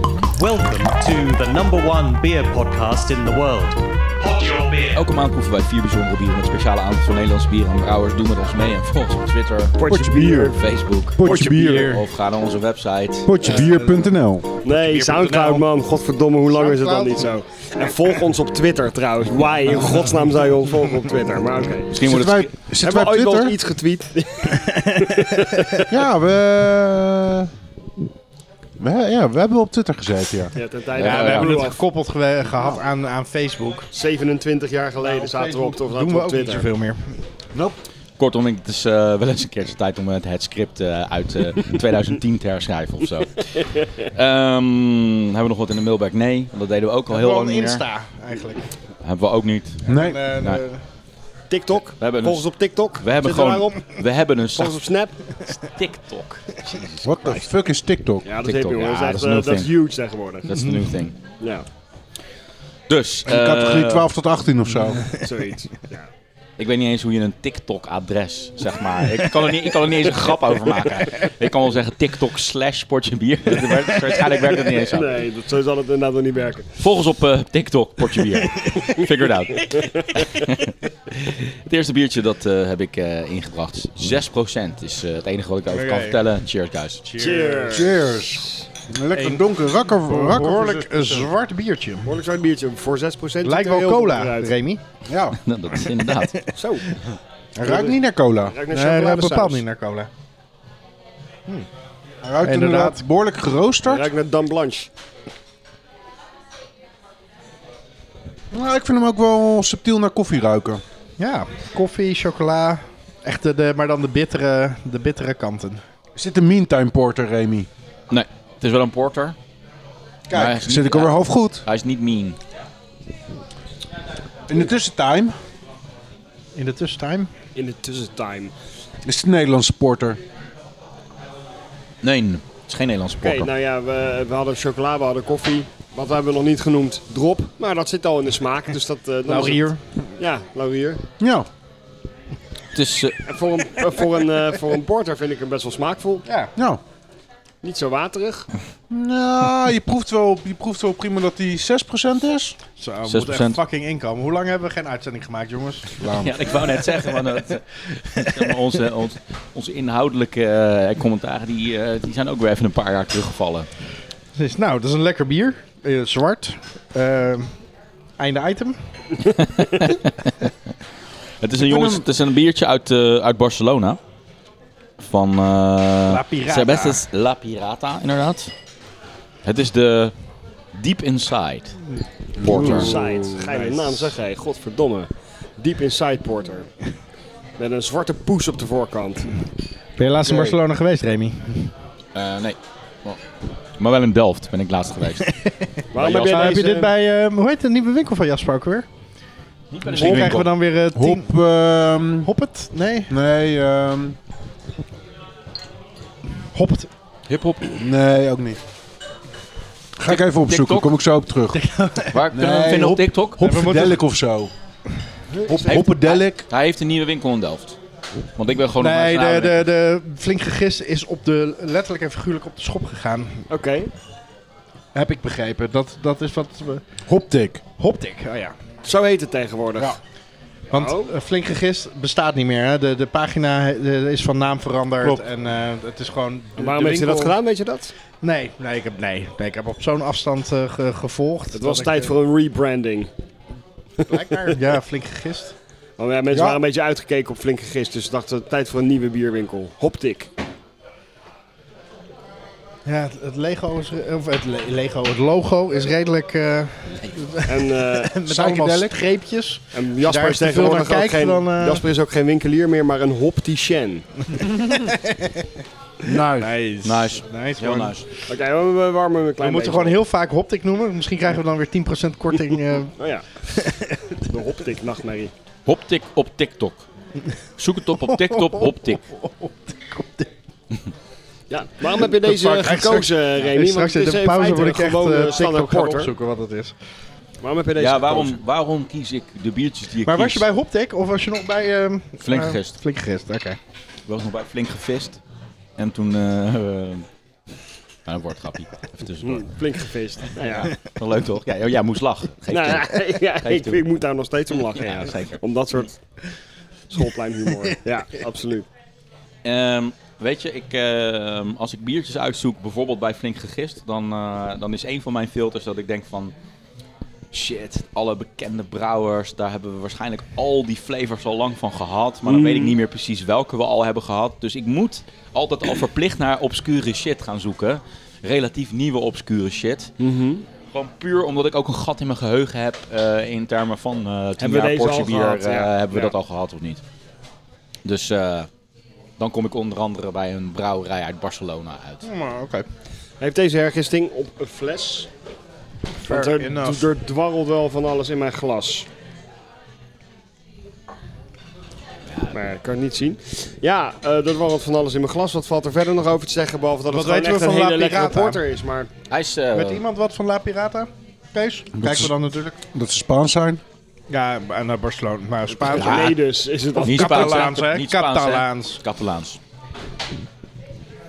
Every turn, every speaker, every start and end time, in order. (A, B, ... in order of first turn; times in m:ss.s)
0:00.4-0:05.0 A
0:04.9-0:09.8 B
0:09.8-0:10.7 C
0:09.9-0:10.6 D
0:10.6-0:13.3 B
0:11.2-0:12.0 D
0:11.2-0:11.9 C
0:13.2-0:14.5 D
0:13.4-0:14.1 E
0:14.6-0:21.9 C
0:14.7-0:15.6 E
0:16.5-0:17.3 E
0:21.9-0:22.5 B
0:22.0-0:23.6 D
0:22.8-0:25.9 C
0:25.9-0:27.5 D
0:28.8-0:30.5 D
0:30.6-0:31.8 C
0:30.9-0:31.7 B
0:31.0-0:33.9 E
0:33.9-0:36.7 C
0:35.0-0:35.8 D
0:35.9-0:37.2 E
0:38.2-0:47.8 B
0:47.1-0:48.6 E
0:49.0-0:49.8 B
0:49.9-0:50.2 D
0:49.9-0:50.8 E
0:51.5-0:53.8 C
0:52.0-0:54.8 B
0:54.6-0:55.2 C
0:55.5-0:57.5 B
0:57.0-0:58.2 D
0:58.2-1:00.5 C
0:58.4-0:59.7 B
1:00.4-1:01.2 B
1:01.4-1:01.6 C
1:02.9-1:04.1 B
1:03.3-1:05.1 D
1:05.2-1:06.1 C
1:06.6-1:15.2 B
1:14.7-1:16.7 C
1:16.8-1:27.0 B
1:19.7-1:20.3 C
1:25.7-1:26.2 E
1:27.0-1:27.9 E
1:27.2-1:28.0 C
1:27.7-1:31.3 D
1:29.1-1:29.4 E
1:30.0-1:32.1 E
1:32.0-1:34.5 C
1:33.4-1:34.8 E
1:35.1-1:35.4 D
1:35.4-1:36.4 B
1:36.0-1:36.5 E
1:36.6-1:36.9 C
1:37.6-1:38.6 D
1:37.6-1:39.6 C
1:38.7-1:40.1 E
1:42.2-1:44.1 D
1:42.4-1:43.0 E
1:43.8-1:44.9 C
1:48.5-1:50.8 D
1:51.2-1:55.8 E
1:56.2-1:57.7 D
1:58.1-1:59.4 B
2:00.3-2:01.6 D
2:00.3-2:02.4 B
2:04.5-2:05.4 D
2:06.6-2:07.3 E
2:07.6-2:08.5 C
2:09.0-2:10.2 D
2:12.0-2:13.5 B
2:13.2-2:19.6 C
2:19.3-2:19.8 E
2:20.2-2:21.0 C
2:21.2-2:21.5 D
2:22.7-2:23.2 B
2:23.3-2:26.2 C
2:26.3-2:26.5 E
2:26.6-2:26.8 D
2:27.6-2:28.5 C
2:28.9-2:32.6 D
2:32.8-2:36.0 E
2:33.1-2:33.6 B
2:36.0-2:36.3 D
2:36.1-2:43.7 B
2:44.4-2:47.5 E
2:48.2-2:48.8 E
2:49.4-2:50.5 B
2:51.4-2:54.0 B
2:51.6-2:52.0 D
2:55.0-2:58.5 B
2:56.1-2:57.0 E
2:59.4-3:00.1 B
3:00.7-3:01.8 B
3:02.4-3:03.2 D
3:02.4-3:02.9 B
3:02.5-3:06.7 C
3:02.6-3:03.7 E
3:07.6-3:09.3 C
3:10.0-3:11.7 E
3:10.2-3:10.6 C
3:12.2-3:13.2 B
3:13.8-3:15.3 B
3:15.9-3:16.9 C
3:15.9-3:16.6 B
3:16.1-3:18.9 E
3:19.7-3:20.5 B
3:19.9-3:21.3 E
3:20.0-3:20.4 D
3:20.9-3:22.3 D
3:22.2-3:23.1 E
3:23.1-3:24.2 D
3:26.5-3:26.9 E
3:27.3-3:27.7 B
3:27.8-3:28.6 D
3:30.0-3:31.6 D
3:30.1-3:30.9 B
3:31.5-3:32.2 E
3:32.1-3:33.4 B
3:32.3-3:34.5 D
3:33.4-3:34.0 E
3:35.3-3:35.8 C
3:35.5-3:36.4 D
3:35.7-3:37.8 B
3:38.4-3:39.6 B
3:38.8-3:43.4 E
3:43.5-3:43.9 C
3:44.9-3:46.8 E
3:47.1-3:47.6 D
3:47.8-3:48.5 E
3:48.8-3:50.0 C
3:50.7-3:57.4 E
3:50.7-3:51.1 C
3:56.6-3:57.9 C
3:58.2-4:02.1 E
4:01.5-4:03.1 C
4:04.0-4:04.6 C
4:04.1-4:05.6 E
4:06.0-4:10.3 C
4:06.3-4:06.6 D
4:12.8-4:21.8 E
4:17.5-4:18.2 C
4:18.3-4:18.9 D
4:19.7-4:24.1 C
4:24.6-4:25.3 E
4:26.0-4:26.5 D
4:26.4-4:28.0 E
4:26.8-4:28.1 B
4:28.3-4:30.0 C
4:29.4-4:32.9 E
4:33.0-4:33.3 C
4:33.5-4:33.9 E
4:34.3-4:35.3 C
4:35.7-4:36.8 B
4:37.6-4:39.0 B
4:38.1-4:40.3 E
4:41.5-4:46.1 C
4:41.9-4:46.8 E
4:47.4-4:48.4 C
4:47.8-4:50.5 B
4:50.0-4:53.6 E
4:52.2-4:52.8 B
4:54.1-4:55.2 B
4:55.8-4:57.1 B
4:58.1-4:59.5 B
4:59.2-5:00.7 C
5:00.4-5:03.8 B
5:02.5-5:05.9 C
5:04.7-5:05.9 B
5:06.9-5:08.7 C
5:09.4-5:16.3 B
5:17.3-5:29.9 B
5:22.3-5:22.8 C
5:30.0-5:30.5 C
5:30.7-5:36.8 B
5:34.4-5:36.1 C
5:37.8-5:38.5 B
5:39.2-5:42.0 B
5:42.0-5:42.7 E
5:43.2-5:45.1 C
5:46.0-5:46.8 E
5:46.0-5:48.9 C
5:52.1-5:52.4 B
5:52.3-5:58.9 C
5:56.9-5:58.4 E
5:59.1-5:59.8 B
5:59.5-6:02.6 E
6:01.8-6:02.1 D
6:02.7-6:03.6 D
6:04.1-6:06.1 E
6:05.5-6:07.5 C
6:06.8-6:08.8 E
6:06.8-6:09.4 B